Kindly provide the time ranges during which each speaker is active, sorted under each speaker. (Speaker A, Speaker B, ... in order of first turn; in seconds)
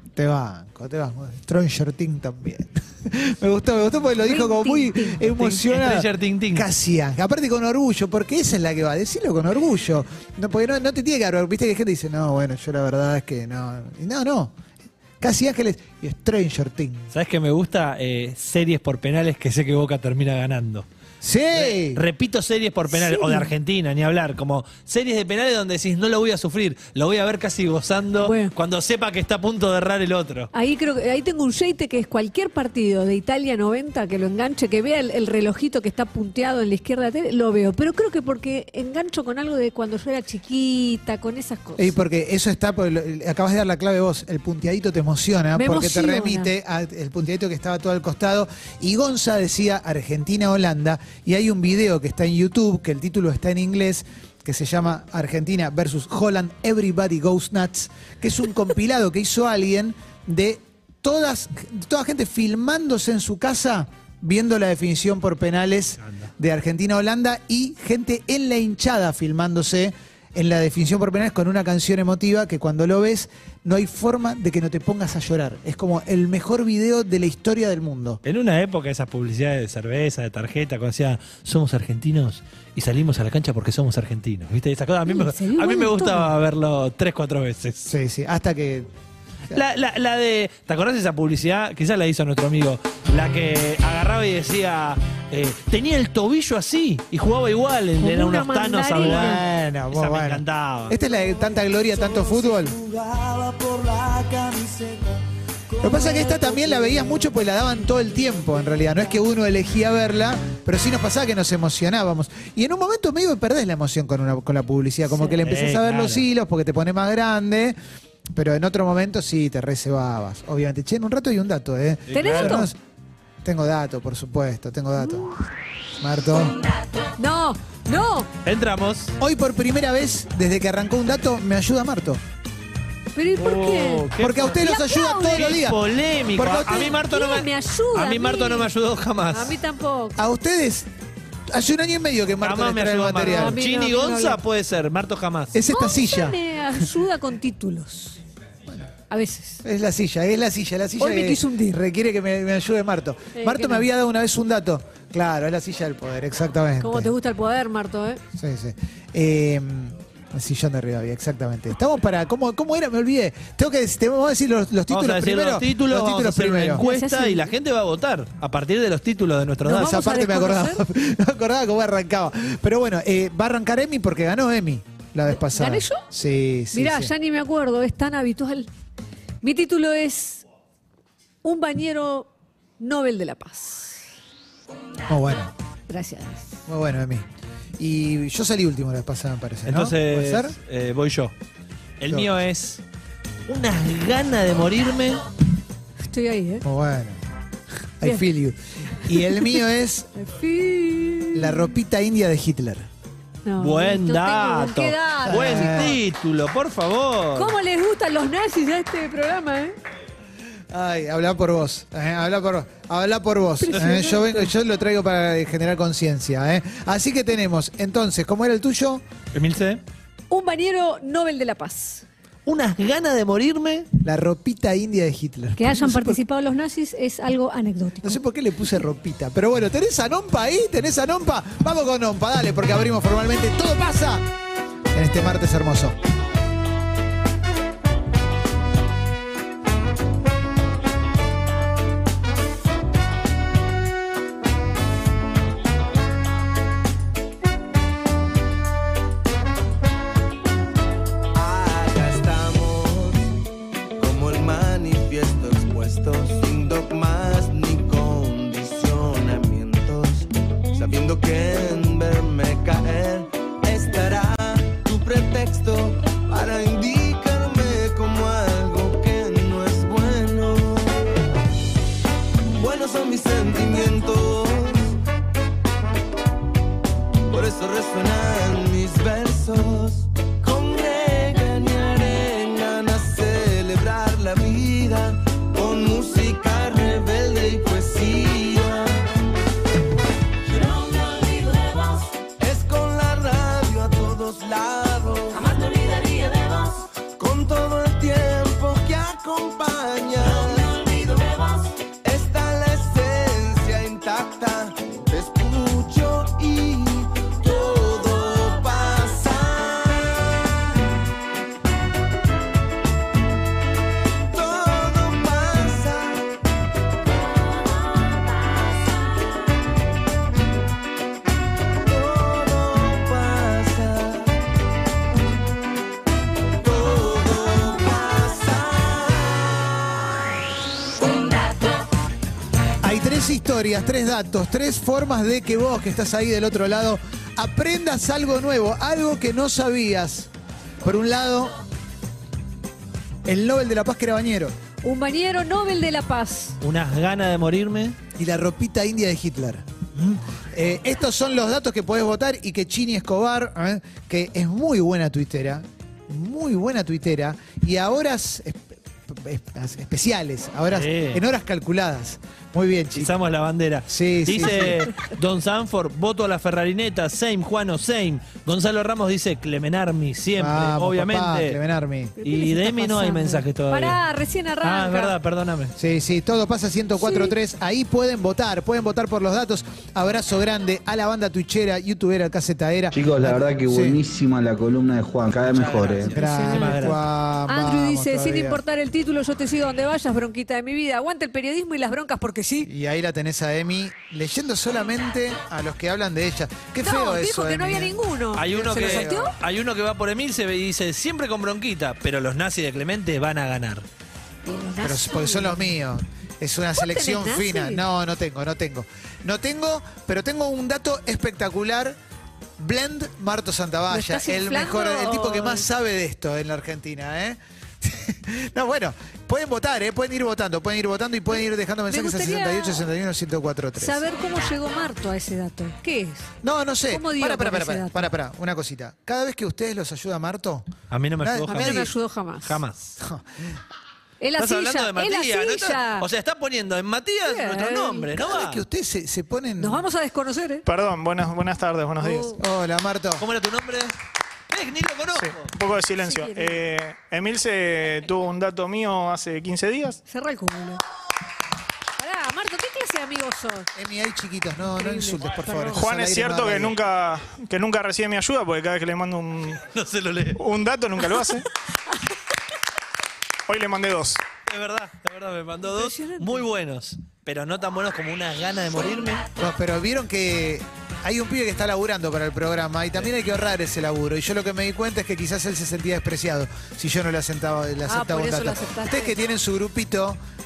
Speaker A: 0.2-14.5, 15.2-17.1, 21.2-22.0, 41.8-78.2, 87.9-88.9, 99.0-102.8, 105.8-117.8, 118.3-122.8, 123.4-125.3, 126.0-126.6, 129.2-132.2, 134.2-135.8, 136.3-136.9, 140.2-140.9, 141.5-143.6, 145.5-146.8, 149.6-157.1, 158.3-166.8, 169.7-177.1, 185.1-185.5, 186.7-187.3, 187.8-190.5, 196.6-197.2, 198.0-200.1, 201.3-202.9, 205.3-206.0, 210.7-219.0, 224.0-226.2, 228.0-234.3, 234.9-236.0, 332.8-340.3, 340.8-341.6, 343.2-344.6, 348.2-363.1, 363.9-364.9, 370.4-372.1, 375.8-384.0, 386.1-388.6, 392.6-399.3, 404.8-412.0, 412.6-424.0, 426.4-431.9, 433.0-433.3, 438.1-439.9, 442.4-443.2, 453.8-456.8, 469.4-480.2
Speaker B: 4.2-5.2, 22.9-23.5, 28.2-28.5, 30.5-42.0, 45.5-46.5, 85.1-86.3, 98.0-99.4, 106.0-106.3, 115.1-115.4, 122.1-122.7, 127.2-128.3, 133.2-135.6, 136.6-138.7, 139.3-140.2, 143.2-144.4, 145.7-148.2, 149.1-149.6, 151.0-151.8, 153.3-153.9, 156.8-158.2, 166.8-167.5, 169.7-170.8, 175.3-176.0, 176.7-178.7, 179.4-180.4, 181.4-182.3, 182.8-184.0, 185.9-186.5, 196.0-196.6, 199.2-199.6, 200.2-201.7, 203.4-205.9, 207.3-209.8, 213.6-214.5, 220.3-222.1, 225.6-228.2, 344.8-346.6, 372.2-375.1, 377.0-377.4, 386.1-392.7, 396.8-399.3, 404.4-405.7, 406.8-407.8, 413.9-415.7, 421.9-422.8, 423.8-426.3, 426.9-428.1, 431.5-432.6, 434.2-436.1, 437.2-438.1, 439.6-440.7, 442.0-442.4, 446.0-446.6, 450.1-450.8, 452.0-453.7, 454.8-455.9, 465.7-466.4, 477.9-479.2
Speaker C: 5.3-6.7, 17.1-20.9, 21.5-30.5, 66.0-66.3, 78.2-87.9, 89.5-101.0, 115.4-116.2, 122.1-122.7, 128.4-129.2, 133.4-134.6, 135.3-139.6, 142.4-145.6, 164.9-170.1, 189.7-191.3, 192.0-192.8, 193.5-195.2, 203.6-207.6, 219.3-219.8, 222.5-223.9, 346.6-348.0, 360.7-361.2, 363.0-371.6, 372.2-374.0, 374.6-375.7, 385.5-387.0, 398.4-403.9, 430.9-433.0, 434.4-438.6, 443.2-443.9, 444.5-445.5, 459.6-460.4, 464.5-469.2
Speaker D: 101.2-107.3, 251.3-253.3, 254.0-271.1, 272.4-275.0, 277.3-289.1, 290.5-291.4, 292.3-295.6, 297.2-301.2, 302.0-310.6, 314.3-316.2, 321.8-324.3, 326.6-329.8
Speaker E: 382.9-386.1
Speaker F: 440.7-442.4, 445.2-450.0, 455.7-459.6, 460.4-461.5, 463.5-464.2